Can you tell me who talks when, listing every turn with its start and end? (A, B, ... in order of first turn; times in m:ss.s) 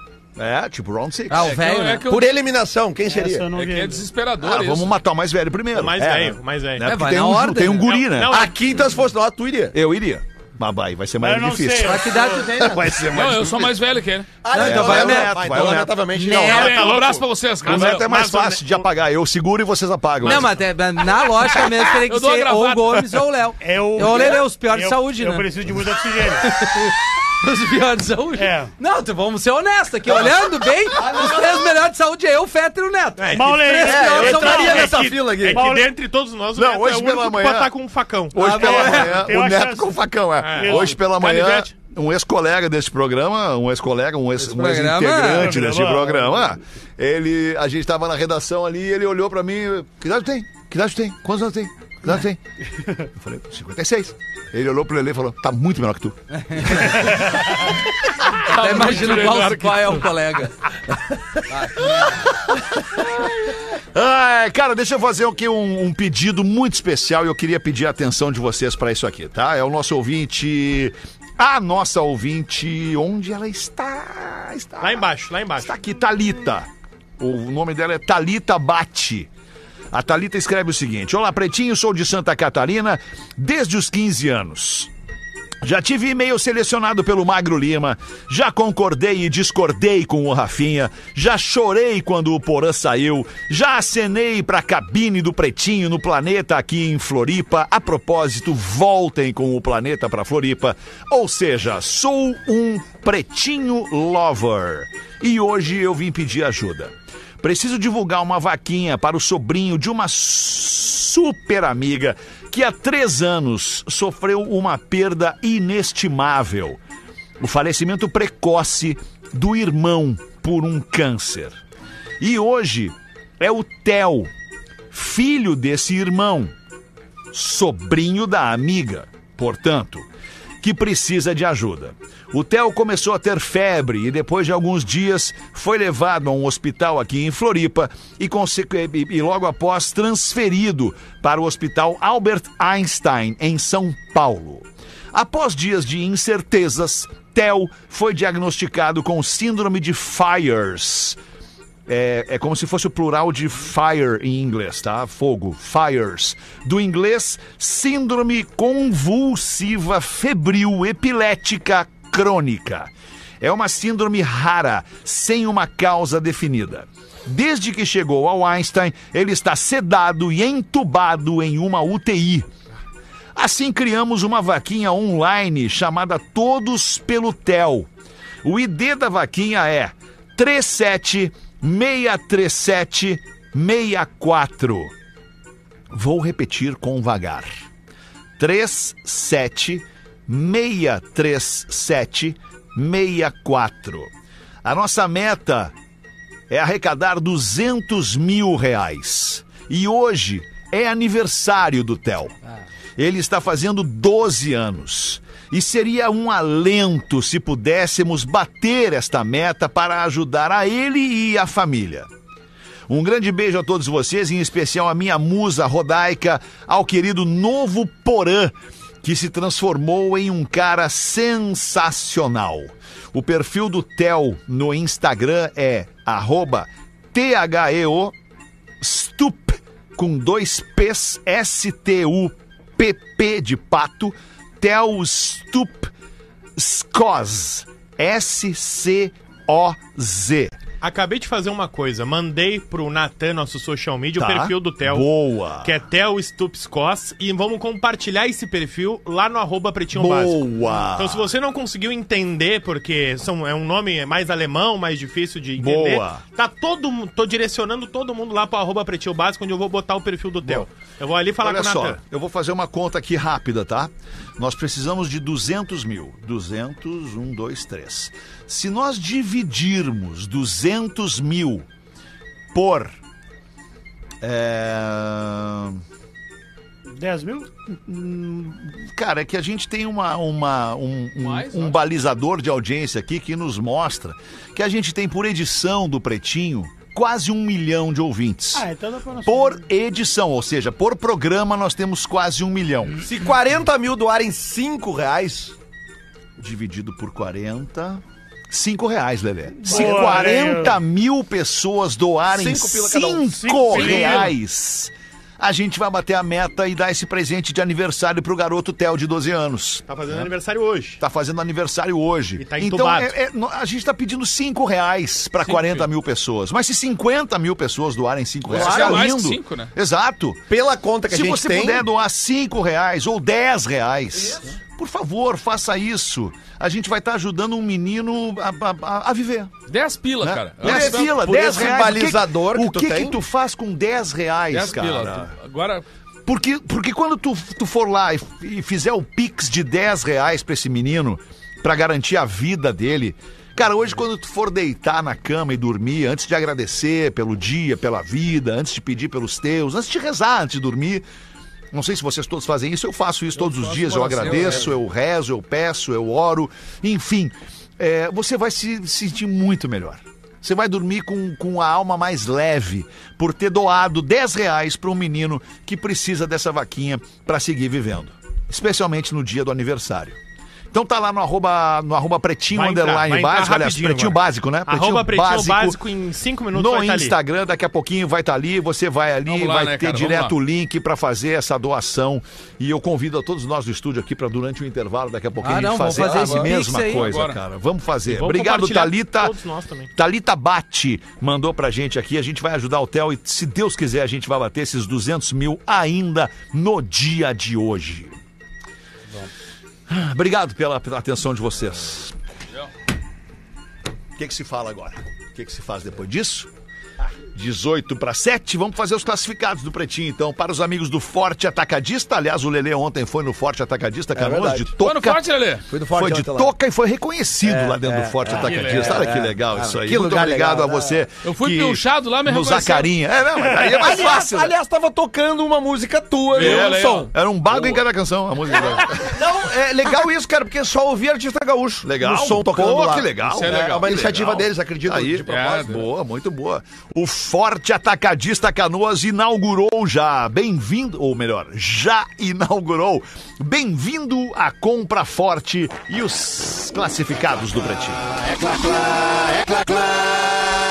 0:00.4-0:01.6 A
0:01.3-0:02.1 B
0:01.4-0:02.3 C
0:02.0-0:03.5 D
0:03.1-0:04.1 E
0:03.5-0:04.9 C
0:04.4-0:08.4 A
0:05.7-0:06.8 F
0:06.8-0:08.0 B
0:07.8-0:08.6 F
0:08.3-0:09.8 D
0:09.7-0:12.1 A
0:11.2-0:12.5 E
0:11.8-0:13.0 B
0:12.5-0:13.8 D
0:13.1-0:14.3 C
0:14.4-0:17.1 D
0:14.5-0:15.4 B
0:14.5-0:16.0 A
0:16.2-0:18.1 C
0:16.4-0:18.9 F
0:17.6-0:20.5 A
0:20.2-0:25.5 B
0:22.1-0:23.2 C
0:23.6-0:26.5 E
0:26.4-0:35.0 B
0:28.4-0:28.7 E
0:31.0-0:31.5 D
0:33.3-0:35.6 D
0:33.3-0:35.9 E
0:34.6-0:38.4 F
0:36.6-0:37.7 A
0:38.3-0:52.4 A
0:38.4-0:39.3 B
0:38.5-0:40.0 E
0:40.4-0:41.0 F
0:40.6-0:41.0 E
0:41.1-0:41.7 C
0:44.4-0:45.5 B
0:45.4-0:46.4 E
0:53.1-0:57.1 A
0:56.5-0:57.0 B
0:57.0-0:57.4 E
0:58.5-1:00.5 B
0:58.5-0:59.8 C
0:58.8-0:59.3 F
1:01.5-1:02.3 B
1:02.1-1:19.3 A
1:14.8-1:15.8 F
1:19.9-1:24.9 A
1:25.6-1:56.8 A
1:57.4-2:01.6 A
2:02.2-2:04.3 A
2:04.9-2:06.5 A
2:07.3-2:10.1 A
2:10.6-2:31.2 A
2:31.9-2:52.5 A
2:53.4-2:57.9 A
2:58.4-3:04.9 A
3:05.9-3:07.5 A
3:08.4-3:14.1 A
3:14.6-3:15.7 A
3:16.5-3:22.4 A
3:23.0-3:32.1 A
3:32.9-3:48.1 A
3:48.8-3:55.9 A
3:56.6-4:00.6 A
4:00.8-4:22.0 F
4:04.2-4:05.8 A
4:09.9-4:11.3 A
4:15.6-4:16.2 A
4:21.4-4:31.6 A
4:32.5-4:32.9 A
4:34.2-4:35.8 A
4:36.9-4:37.5 E
4:37.7-4:48.7 A
4:41.2-4:41.8 C
4:48.5-4:49.6 E
4:49.2-4:53.0 A
4:53.0-4:55.6 D
4:56.4-5:10.3 A
4:59.6-5:00.8 E
4:59.7-5:00.0 D
5:02.3-5:04.1 D
5:03.4-5:04.2 E
5:03.7-5:04.3 C
5:09.9-5:11.0 F
5:11.0-5:20.4 A
5:12.4-5:13.1 F
5:15.4-5:15.9 C
5:18.5-5:19.1 D
5:18.5-5:19.7 C
5:20.5-5:21.8 D
5:21.1-5:29.5 A
5:29.7-5:31.6 C
5:30.2-5:35.3 A
5:30.6-5:33.2 D
5:34.5-5:35.8 C
5:36.3-5:51.0 A
5:51.7-6:10.2 A
5:53.4-5:54.6 F
5:54.1-5:54.5 D
5:54.2-5:54.5 B
6:10.7-6:15.8 A
6:12.5-6:17.2 F
6:16.5-6:29.3 A
6:19.3-6:20.3 C
6:25.4-6:27.2 B
6:27.0-6:27.4 C
6:28.1-6:29.9 F
6:30.0-6:38.2 A
6:39.9-6:42.2 A
6:44.2-6:46.5 A
6:47.3-6:55.2 A
6:54.2-6:54.8 D
6:54.8-6:55.6 C
6:55.7-6:56.5 D
6:55.9-7:04.5 A
6:57.4-7:01.0 D
6:58.3-6:59.0 C
7:01.2-7:02.9 C
7:03.6-7:07.8 D
7:06.3-7:07.1 C
7:06.4-7:09.2 A
7:08.6-7:15.7 D
7:11.8-7:28.0 A
7:13.2-7:14.4 C
7:15.3-7:15.8 C
7:29.4-7:30.2 A